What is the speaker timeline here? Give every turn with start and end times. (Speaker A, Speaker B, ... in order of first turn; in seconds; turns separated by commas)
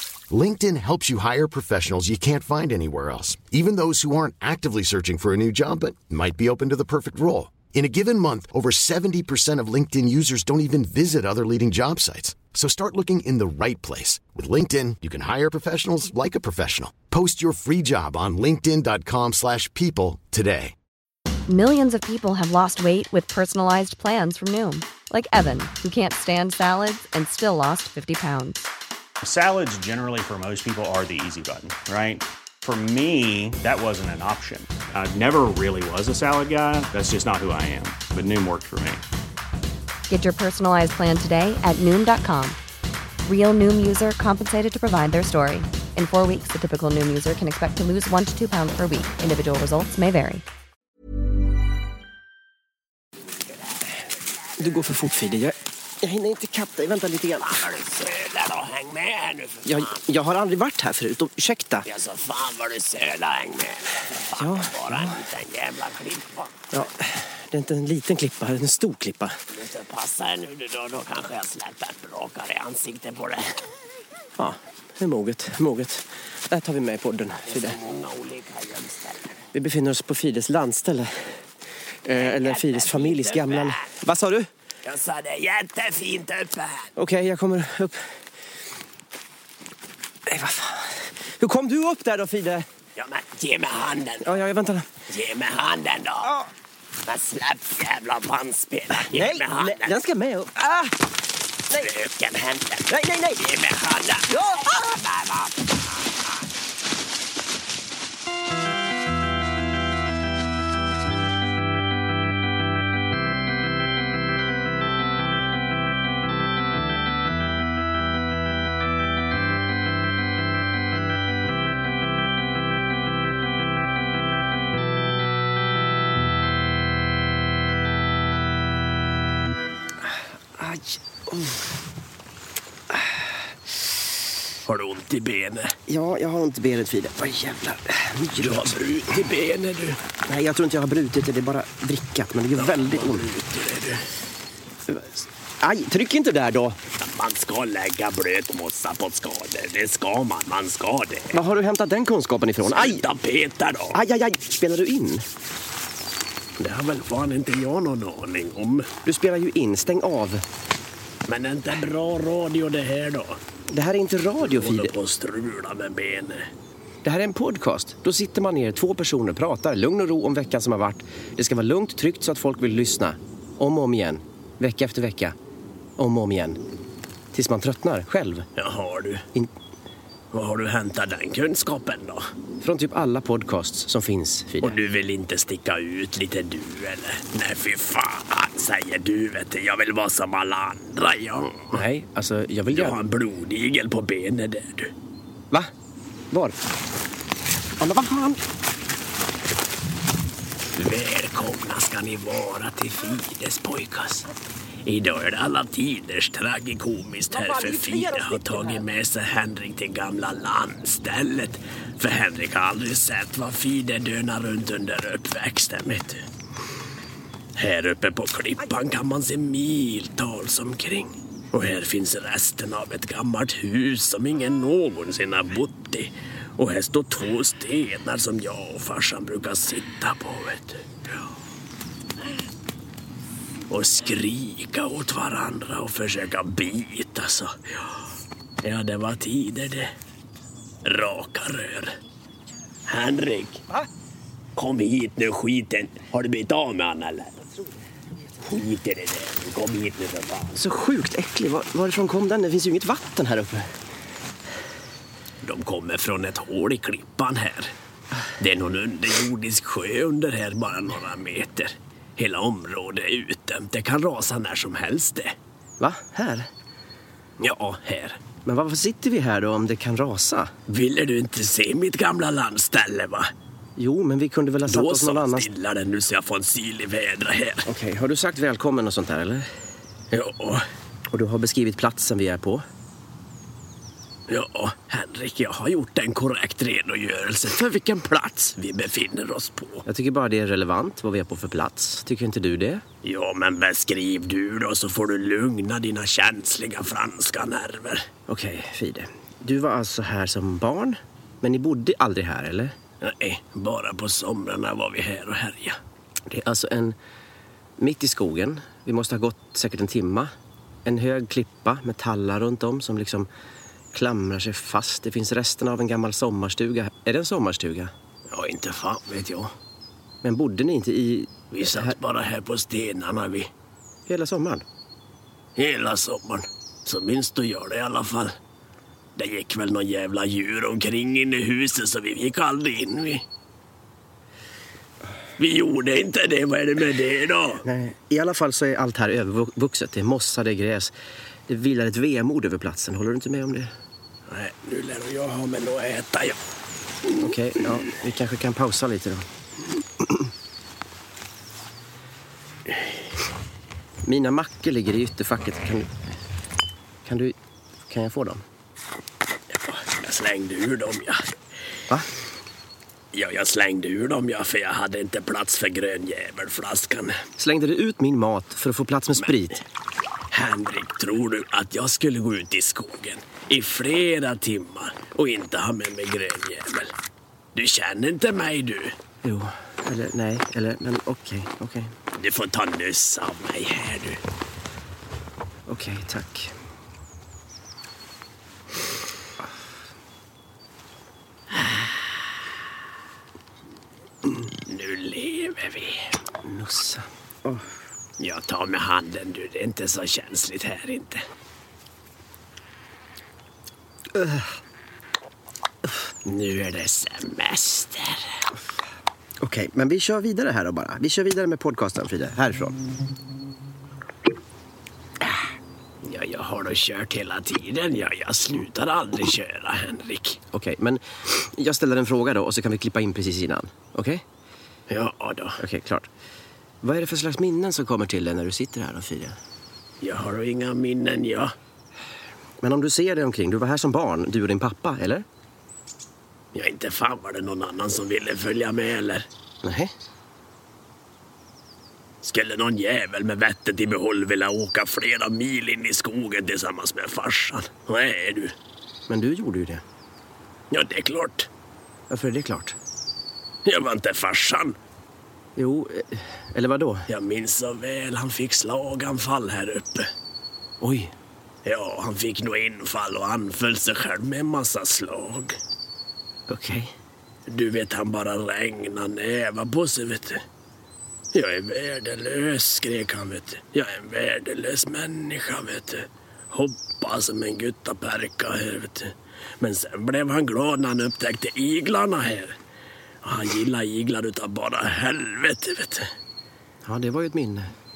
Speaker A: 0.3-20.7, Speaker B: 21.5-28.7, Speaker C: 29.2-39.0, Speaker B: 40.1-42.6, Speaker B: 43.2-50.4, Speaker D: 54.6-57.6, Speaker E: 57.5-60.0, Speaker D: 59.6-61.9, Speaker E: 61.9-66.6, Speaker D: 64.4-65.2, Speaker D: 66.7-69.4, Speaker E: 69.5-73.6, Speaker D: 74.4-77.8, Speaker E: 77.5-79.4, Speaker D: 79.5-81.1, Speaker D: 82.0-84.5, Speaker E: 82.1-83.9, Speaker E: 84.8-86.9, Speaker D: 87.0-88.0, Speaker D: 90.3-92.7, Speaker E: 93.0-94.4, Speaker D: 94.2-94.9, Speaker E: 95.1-96.3, Speaker E: 97.0-99.9, Speaker D: 98.9-101.0, Speaker E: 101.7-105.8, Speaker D: 102.9-103.4, Speaker D: 104.3-104.8, Speaker D: 130.6-131.6, Speaker D: 132.9-133.2, Speaker E: 134.6-135.7, Speaker D: 135.9-138.7, Speaker E: 138.4-140.0, Speaker D: 140.2-143.3, Speaker E: 142.6-144.0, Speaker D: 144.9-146.8, Speaker E: 147.0-151.3, Speaker D: 151.3-153.0, Speaker E: 152.6-154.0, Speaker D: 153.9-155.2, Speaker E: 156.6-158.9, Speaker D: 159.0-160.4, Speaker E: 161.3-163.4, Speaker D: 163.7-164.9, Speaker E: 164.4-166.5, Speaker D: 167.0-175.3, Speaker D: 176.0-176.6, Speaker D: 177.3-178.4, Speaker E: 178.6-179.2, Speaker E: 180.3-182.2, Speaker D: 182.6-184.8, Speaker E: 184.6-191.8, Speaker D: 191.7-193.0, Speaker E: 192.7-194.9, Speaker D: 196.3-196.6, Speaker D: 197.8-198.4, Speaker E: 200.8-204.3, Speaker E: 204.8-216.2, Speaker D: 207.3-208.8, Speaker E: 217.6-230.8, Speaker E: 233.7-237.9, Speaker E: 238.6-239.9, Speaker E: 240.8-241.9, Speaker E: 242.9-243.6, Speaker E: 244.6-247.4, Speaker E: 248.4-250.5, Speaker D: 250.5-253.7, Speaker E: 255.4-257.7, Speaker E: 258.4-265.3, Speaker D: 265.8-266.5, Speaker E: 267.4-268.2, Speaker D: 268.4-270.5, Speaker E: 270.7-273.3, Speaker D: 273.8-275.5, Speaker E: 274.7-277.6, Speaker D: 277.6-279.4, Speaker E: 280.1-280.6, Speaker D: 281.1-282.6, Speaker E: 284.3-289.8, Speaker D: 289.9-292.8, Speaker E: 293.0-298.1, Speaker D: 298.3-302.7, Speaker E: 303.0-305.8, Speaker D: 306.3-306.9, Speaker D: 307.8-310.3, Speaker D: 310.8-313.3, Speaker D: 313.9-317.9, Speaker E: 318.3-319.5, Speaker D: 320.2-321.9, Speaker E: 321.5-323.5, Speaker D: 324.1-324.6, Speaker E: 325.6-328.3, Speaker E: 329.2-333.2, Speaker E: 335.4-337.6, Speaker D: 337.6-340.9, Speaker D: 341.5-343.7, Speaker E: 344.3-346.4, Speaker D: 347.2-349.2, Speaker D: 354.0-355.9, Speaker D: 357.1-357.4, Speaker D: 357.9-358.4, Speaker E: 359.5-361.2, Speaker E: 363.1-367.2, Speaker D: 367.4-369.6, Speaker E: 370.3-376.9, Speaker E: 377.5-378.9, Speaker D: 379.2-381.9, Speaker E: 382.1-384.2, Speaker D: 385.7-386.5, Speaker E: 394.6-396.1, Speaker D: 396.4-397.7, Speaker E: 398.2-401.2, Speaker D: 404.1-404.5, Speaker E: 406.2-408.2, Speaker D: 409.4-412.8, Speaker E: 416.0-420.4, Speaker D: 420.5-424.2, Speaker E: 424.9-425.6, Speaker D: 425.6-426.1, Speaker D: 426.8-429.4, Speaker E: 430.0-431.5, Speaker D: 432.6-435.2, Speaker E: 436.5-439.2, Speaker D: 439.6-439.9, Speaker E: 442.2-448.5, Speaker D: 449.1-449.8, Speaker E: 450.7-451.5, Speaker D: 452.1-452.8, Speaker E: 453.6-454.8, Speaker D: 455.6-457.1, Speaker E: 457.1-460.1, Speaker D: 460.8-461.1, Speaker E: 461.6-465.6, Speaker D: 466.5-466.9, Speaker E: 467.5-470.4, Speaker E: 471.3-482.5, Speaker E: 483.2-486.1, Speaker D: 486.8-487.7